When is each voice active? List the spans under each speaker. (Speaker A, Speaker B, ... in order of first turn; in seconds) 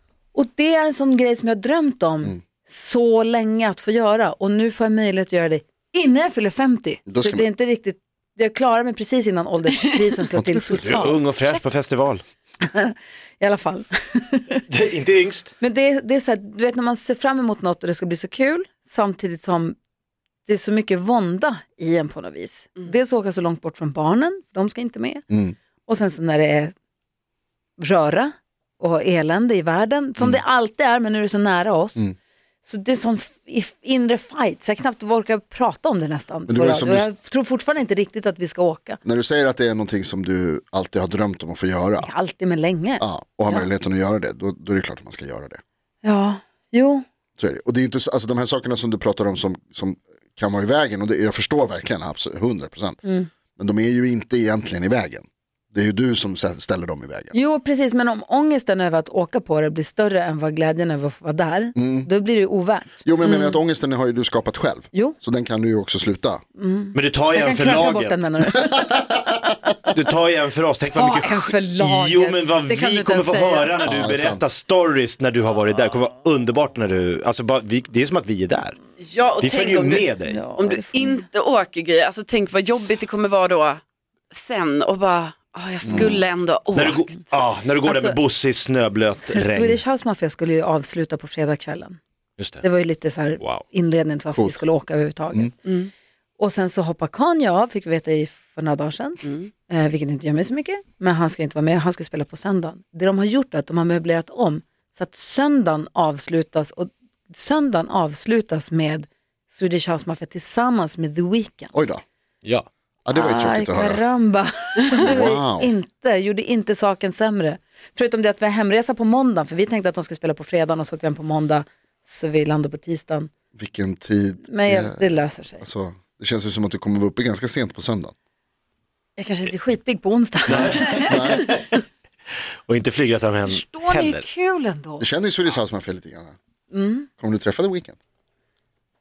Speaker A: 0.3-11.6, 12.6-14.6, 15.6-19.8, 20.4-25.2, 25.9-26.7, 27.8-32.1, 32.6-39.0, 42.0-43.7, 46.0-47.0, 53.0-53.3, 57.3-63.6, 66.6-69.1, 70.8-73.7, 80.2-81.2, 87.8-88.2, 89.2-92.0, 92.6-95.5, 96.4-111.7, 113.1-123.3, 124.5-125.6, 129.2-131.4, 133.4-135.1, 136.7-137.1
Speaker B: 7.1-7.5, 25.3-25.5, 36.5-37.1, 39.0-42.1, 43.0-45.6, 47.4-53.0, 53.5-57.3, 61.8-62.1, 63.0-66.4, 73.8-74.4, 85.9-86.2, 94.3-94.6, 111.7-112.0, 113.0-114.0, 115.0-115.7, 123.6-128.1, 131.0-131.5, 135.0-136.3, 137.2-137.9
Speaker C: 10.7-12.2, 14.7-15.5, 66.9-68.2, 69.9-78.8, 79.4-80.4, 86.7-89.8, 92.4-92.6, 130.5-131.8, 132.7-134.2
Speaker D: 79.0-87.4, 99.2-99.5